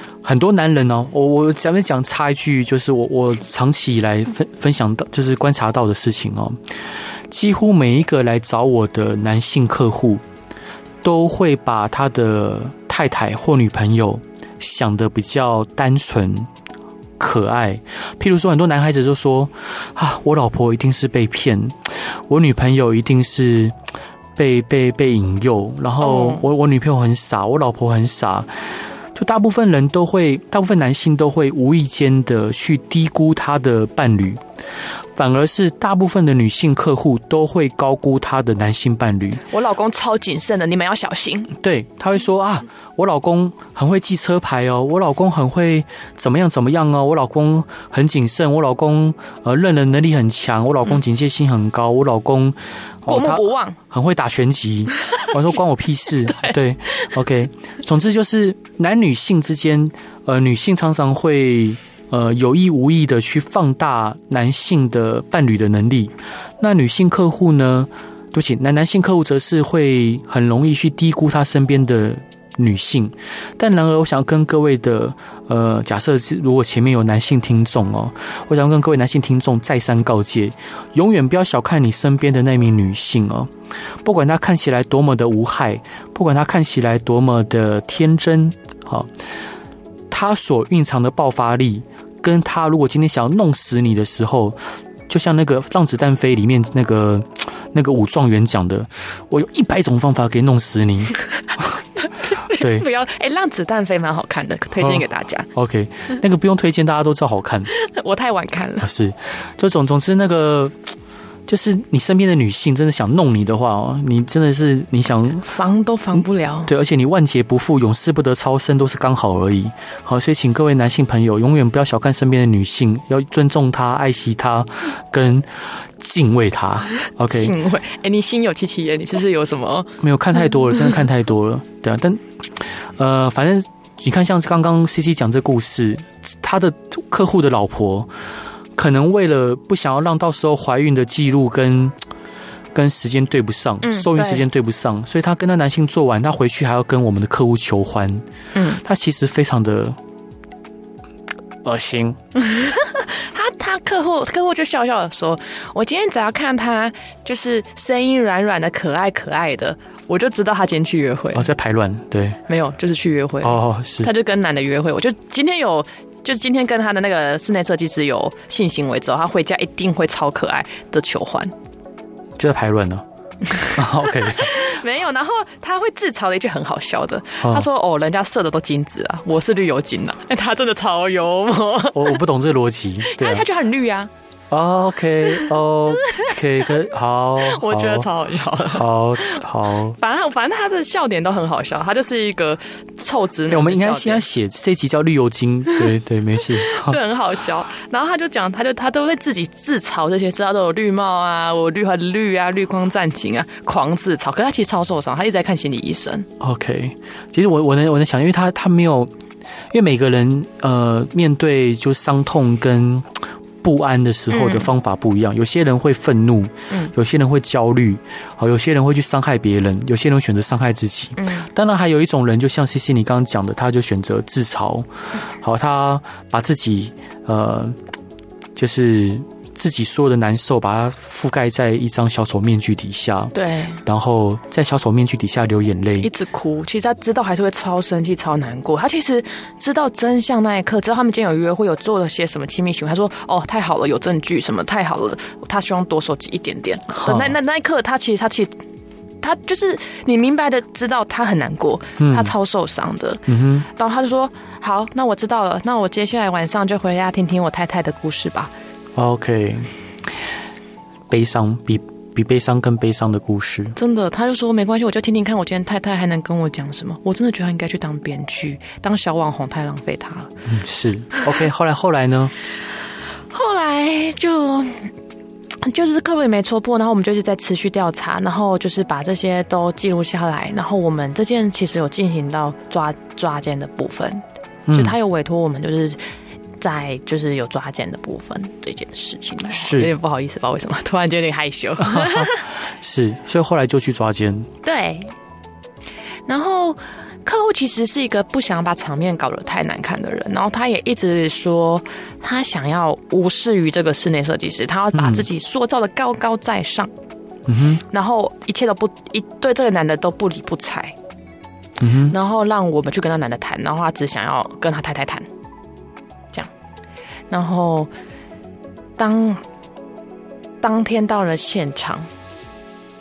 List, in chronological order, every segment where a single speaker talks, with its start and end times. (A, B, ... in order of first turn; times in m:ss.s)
0:00.2-0:06.6 A
0:07.3-0:10.2 A
0:11.0-0:16.5 A
0:17.2-0:23.7 A
0:24.4-0:28.5 A
0:26.0-0:26.4 B
0:29.1-0:34.4 A
0:35.2-0:39.4 A
0:39.5-0:41.5 B
0:41.6-1:23.5 A
0:53.0-0:53.8 B
1:24.0-1:29.1 A
1:30.1-1:34.6 A
1:35.1-1:41.8 A
1:42.2-1:45.5 B
1:42.5-1:42.8 A
1:44.8-1:47.7 A
1:47.7-1:48.9 B
1:48.8-1:50.8 A
1:51.5-1:55.5 A
1:55.4-1:56.7 B
1:56.7-2:07.5 A
2:07.3-2:10.0 B
2:10.0-2:18.1 A
2:18.8-2:21.9 A
2:22.7-2:28.2 A
2:23.8-2:24.4 B
2:28.5-2:28.8 B
2:28.7-2:30.0 A
2:31.6-2:32.2 A
2:32.3-2:41.5 B
2:41.3-2:42.4 A
2:42.5-2:51.5 B
2:43.4-2:44.1 A
2:52.4-2:53.0 A
2:53.5-3:02.2 B
2:53.6-2:54.7 A
2:57.4-2:57.6 A
3:01.9-3:03.4 A
3:03.0-3:04.1 B
3:04.5-3:08.1 A
3:07.4-3:09.3 B
3:08.6-3:10.0 A
3:10.0-3:14.2 B
3:13.5-3:17.0 A
3:16.5-3:26.3 B
3:26.4-3:29.1 A
3:29.7-3:47.8 A
3:34.3-3:34.7 B
3:41.2-3:41.5 B
3:48.6-3:56.1 A
3:53.3-3:53.8 B
3:56.0-4:08.5 B
4:06.9-4:07.4 A
4:09.2-4:18.5 B
4:12.0-4:12.3 A
4:13.3-4:13.7 A
4:19.0-4:19.7 A
4:21.1-4:23.8 A
4:23.8-4:30.3 B
4:30.5-4:32.3 A
4:33.3-4:34.9 B
4:35.6-4:46.0 B
4:44.7-4:45.0 A
4:46.6-4:52.4 B
4:49.5-4:49.9 A
4:51.8-4:54.5 A
4:54.6-4:55.1 B
4:56.3-5:06.9 B
5:04.9-5:05.2 A
5:07.5-5:07.8 A
5:07.8-5:11.0 B
5:11.8-5:12.1 A
5:12.1-5:15.3 B
5:17.3-5:17.9 B
5:19.0-5:19.4 B
5:20.6-5:22.1 B